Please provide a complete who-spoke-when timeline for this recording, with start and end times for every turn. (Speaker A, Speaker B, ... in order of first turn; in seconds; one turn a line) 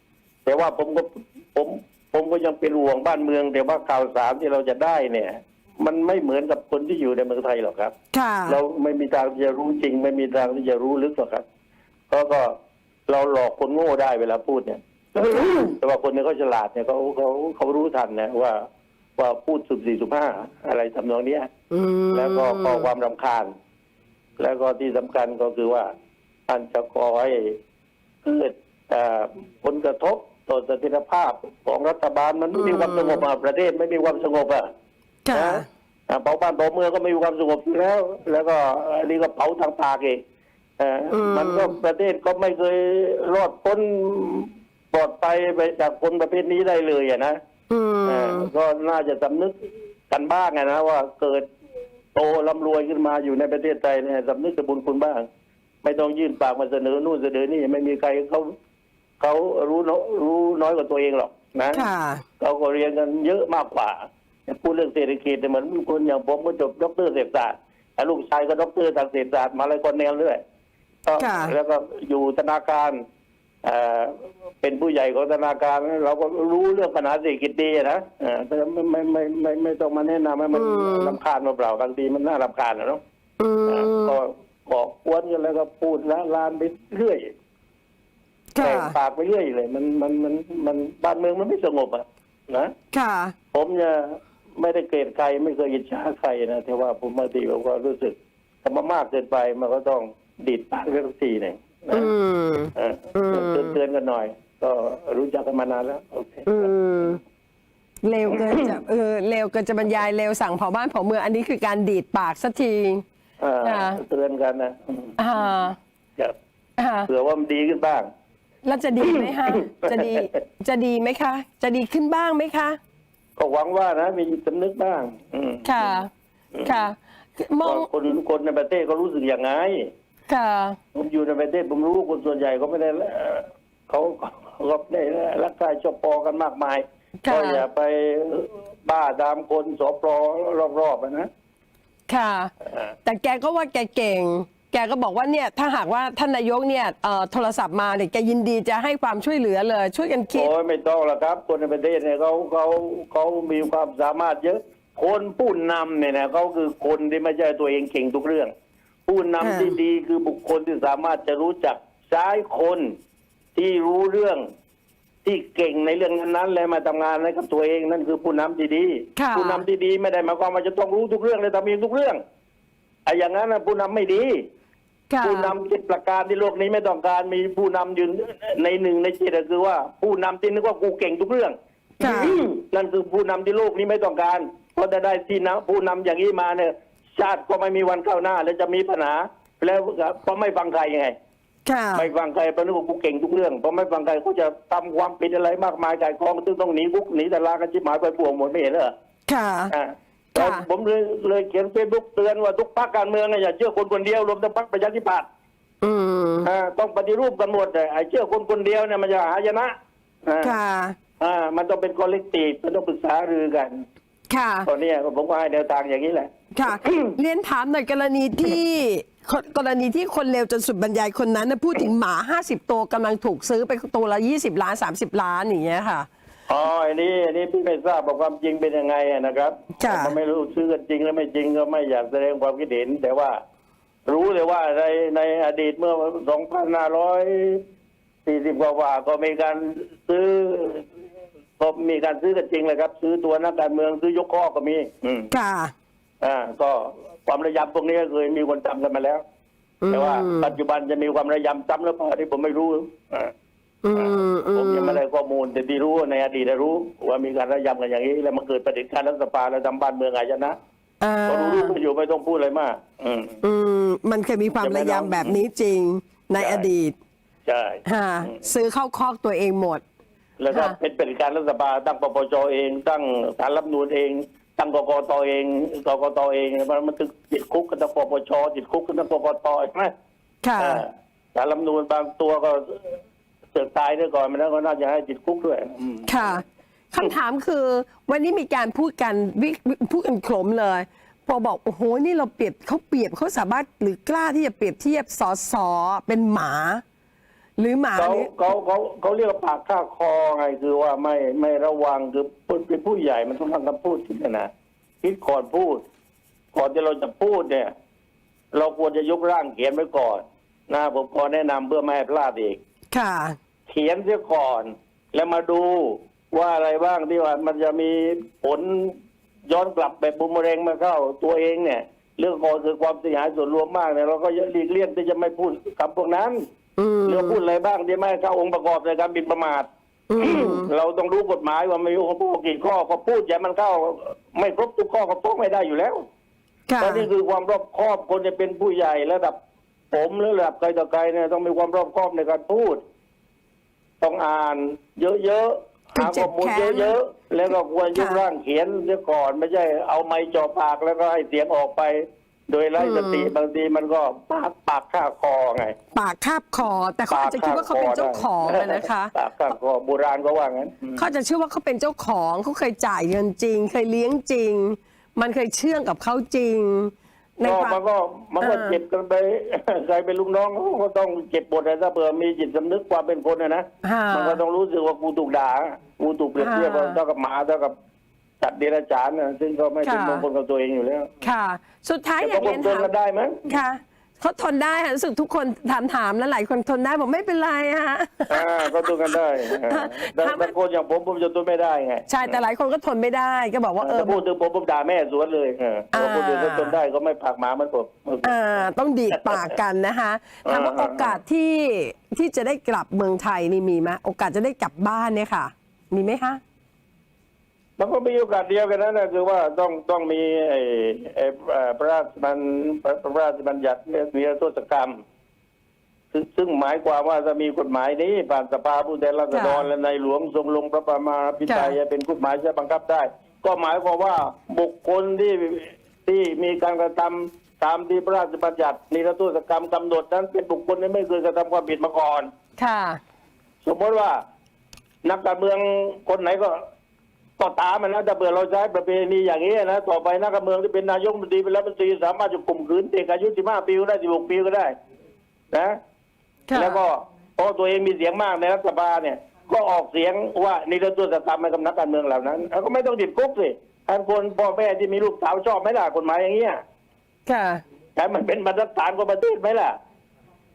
Speaker A: 0.5-7.9
Speaker B: 8.1-8.6
Speaker A: 8.5-11.4
Speaker A: 12.1-12.6
Speaker A: 13.1-18.6
Speaker A: 19.2-21.5
Speaker B: 21.7-22.9
Speaker A: 22.1-23.5
Speaker A: 24.4-25.9
Speaker A: 26.5-27.6
Speaker A: 28.2-34.7
Speaker B: 32.5-33.2
Speaker B: 35.3-35.7
Speaker A: 35.3-40.2
Speaker A: 40.8-47.4
Speaker B: 41.1-41.8
Speaker B: 47.7-48.5
Speaker A: 48.1-49.5
Speaker A: 50.1-51.5
Speaker A: 52.1-55.3
Speaker A: 55.8-58.5
Speaker A: 59.2-61.9
Speaker B: 61.7-62.2
Speaker A: 62.4-70.4
Speaker A: 71.1-73.0
Speaker B: 71.2-71.5
Speaker A: 73.6-83.0
Speaker B: 80.5-81.2
Speaker B: 83.4-84.2
Speaker A: 83.7-87.3
Speaker B: 88.5-88.9
Speaker A: 88.6-92.7
Speaker B: 92.9-93.3
Speaker A: 93.5-102.1
Speaker B: 101.9-103.8
Speaker A: 102.8-106.7
Speaker B: 106.5-107.2
Speaker B: 108.0-113.0
Speaker A: 108.3-108.8
Speaker A: 113.4-115.2
Speaker B: 113.6-114.0
Speaker B: 115.2-115.8
Speaker B: 116.8-117.1
Speaker A: 117.1-118.1
Speaker B: 118.7-122.8
Speaker A: 119.0-120.3
Speaker A: 123.4-126.0
Speaker B: 125.6-126.1
Speaker A: 126.5-126.8
Speaker B: 126.6-127.9
Speaker A: 127.6-129.9
Speaker B: 130.3-130.8
Speaker A: 130.9-141.3
Speaker B: 137.2-137.7
Speaker B: 142.1-142.5
Speaker A: 142.7-142.9
Speaker B: 143.1-150.5
Speaker A: 150.3-158.5
Speaker A: 159.1-162.9
Speaker B: 159.4-159.8
Speaker A: 163.6-164.4
Speaker A: 165.2-172.2
Speaker B: 169.2-169.7
Speaker A: 173.1-174.4
Speaker B: 175.1-175.5
Speaker A: 175.2-191.1
Speaker B: 182.0-182.4
Speaker B: 191.7-192.1
Speaker A: 191.9-198.9
Speaker B: 199.3-199.7
Speaker A: 199.7-205.3
Speaker B: 200.3-200.6
Speaker B: 205.8-206.5
Speaker A: 206.4-209.7
Speaker A: 210.3-210.5
Speaker B: 210.4-211.0
Speaker A: 211.2-213.8
Speaker B: 214.3-214.7
Speaker A: 214.7-217.2
Speaker B: 216.5-226.1
Speaker A: 226.5-233.4
Speaker B: 229.8-230.2
Speaker A: 234.1-237.6
Speaker A: 238.3-240.9
Speaker A: 241.6-245.3
Speaker B: 245.3-245.7
Speaker A: 246.2-249.2
Speaker B: 249.8-250.6
Speaker A: 249.9-253.3
Speaker B: 253.8-255.0
Speaker A: 253.9-260.6
Speaker B: 261.0-261.8
Speaker A: 261.3-263.4
Speaker B: 263.4-266.9
Speaker A: 264.6-265.4
Speaker A: 266.4-266.7
Speaker A: 267.5-268.4
Speaker B: 267.9-269.8
Speaker A: 270.4-279.9
Speaker B: 270.5-270.8
Speaker B: 280.4-280.8
Speaker A: 280.6-283.0
Speaker A: 283.5-286.4
Speaker B: 286.1-296.8
Speaker B: 297.6-298.3
Speaker A: 298.0-304.5
Speaker A: 305.0-305.8
Speaker A: 306.5-307.7
Speaker A: 308.5-312.6
Speaker B: 312.9-313.4
Speaker A: 313.7-319.0
Speaker A: 319.5-326.4
Speaker B: 326.8-327.4
Speaker A: 327.1-329.7
Speaker B: 330.1-330.7
Speaker A: 330.2-336.1
Speaker B: 336.7-337.1
Speaker A: 336.8-339.4
Speaker A: 339.9-342.8
Speaker A: 344.0-355.8
Speaker B: 345.9-347.0
Speaker B: 347.9-348.2
Speaker B: 352.8-353.3
Speaker B: 355.9-359.1
Speaker A: 357.1-361.0
Speaker B: 361.0-367.8
Speaker A: 367.4-377.8
Speaker B: 368.4-368.8
Speaker B: 373.8-374.4
Speaker B: 376.4-377.0
Speaker A: 378.4-381.1
Speaker B: 379.8-380.2
Speaker B: 381.2-382.9
Speaker A: 382.2-383.4
Speaker B: 383.5-390.5
Speaker A: 388.3-392.4
Speaker B: 392.1-394.2
Speaker A: 393.8-399.5
Speaker B: 395.9-396.8
Speaker B: 398.2-406.4
Speaker A: 400.4-401.2
Speaker A: 407.8-415.0
Speaker A: 416.1-432.3
Speaker B: 419.3-419.7
Speaker B: 421.5-421.8
Speaker B: 432.6-433.0
Speaker A: 433.6-434.2
Speaker A: 435.0-436.6
Speaker A: 437.4-444.7
Speaker A: 445.5-445.8
Speaker B: 446.5-446.8
Speaker A: 446.5-456.6
Speaker B: 457.3-457.6
Speaker A: 458.0-459.8